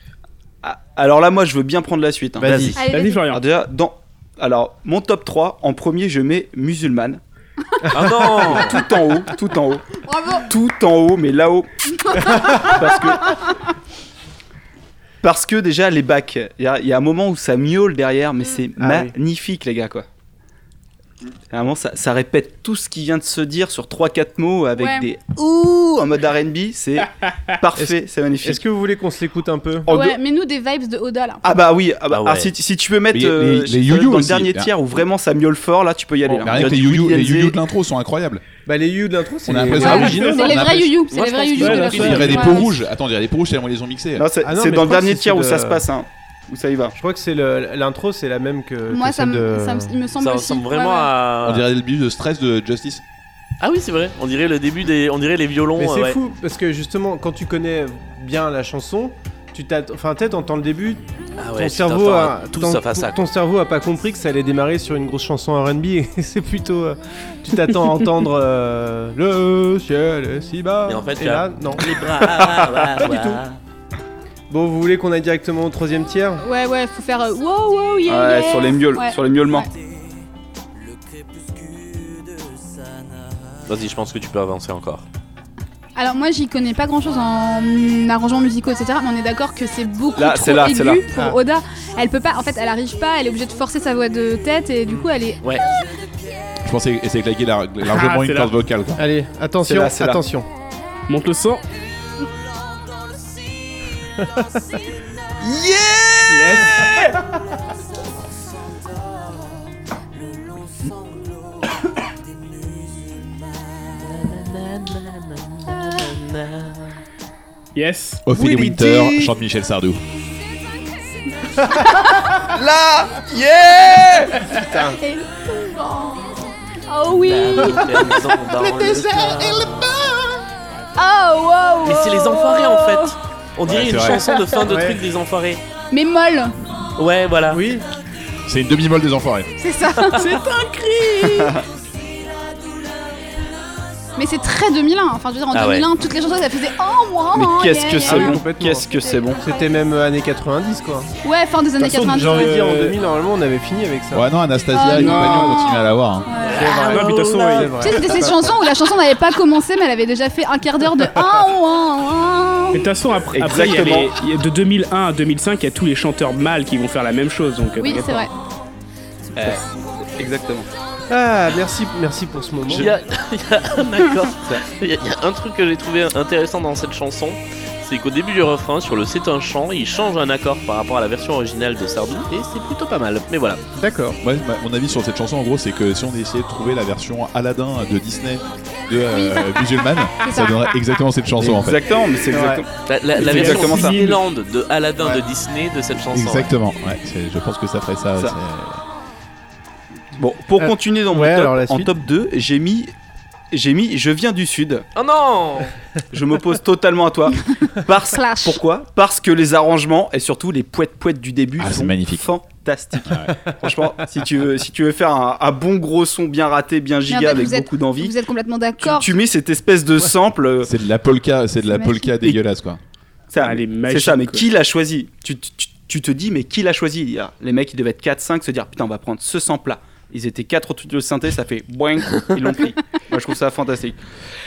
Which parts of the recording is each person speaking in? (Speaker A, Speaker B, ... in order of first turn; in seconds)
Speaker A: 0.6-2.8, 3.3-7.2, 8.0-13.4, 15.2-20.0, 21.5-28.6, 29.9-30.2, 31.4-37.5, 44.1-47.0, 78.0-79.7, 90.1-91.0, 99.6-100.2, 105.4-107.1, 122.4-124.5, 141.2-141.6, 147.3-149.4, 163.3-164.2, 169.3-169.6, 170.2-170.7, 191.4-194.1, 200.2-202.9, 203.5-204.8, 206.1-218.1, 218.8-220.7, 223.3-234.0
Speaker B: 2.4-2.8, 7.9-8.6, 18.8-19.1, 27.8-29.9, 36.3-36.5, 38.6-40.9, 44.4-45.8, 47.0-50.0, 55.8-61.0, 61.5-73.4, 74.5-76.4, 99.0-100.5, 104.2-104.4, 118.3-119.1, 124.6-125.0, 134.6-135.0, 137.5-137.8, 148.0-151.1, 151.8-154.3, 156.5-158.6, 171.1-172.9, 183.8-184.2, 192.3-192.6, 200.6-201.9
Speaker C: 2.7-3.2, 10.0-10.5, 12.1-13.3, 24.8-25.1, 29.9-31.4, 39.8-42.7, 48.9-51.1, 76.4-79.7, 86.0-95.4, 121.8-122.3, 124.9-128.3, 130.9-133.1, 135.9-136.5, 139.6-140.2, 144.2-148.4, 148.9-149.8, 151.2-152.5, 154.7-156.7, 157.8-162.8, 167.8-168.3, 189.1-189.6, 190.2-190.7, 208.1-208.6, 217.1-219.1, 221.7-222.3
Speaker D: 2.8-3.4, 39.9-40.5, 41.6-42.5, 97.9-98.5, 101.1-101.6, 106.3-106.7, 117.7-118.2, 140.2-141.5, 151.8-153.0, 154.9-155.7, 156.7-157.8, 162.7-168.3, 193.1-194.2, 223.4-224.5
Speaker E: 7.9-8.8, 32.1-32.5, 41.1-42.7, 50.2-51.6, 53.6-56.2, 61.4-63.2, 70.8-73.6, 83.7-85.0, 114.0-117.0, 127.2-130.1, 131.8-135.6, 137.0-137.6, 145.5-145.9, 156.4-157.7, 172.7-183.6, 192.8-196.5, 204.9-205.7
Speaker F: 33.1-34.7, 36.4-38.4, 39.5-40.9, 41.9-44.2, 51.4-53.0, 96.6-99.0, 118.2-120.0, 128.8-129.9, 133.7-134.2, 138.4-139.5, 154.1-156.3, 184.2-191.9, 196.1-198.8, 211.6-212.2, 213.1-213.3, 220.6-222.8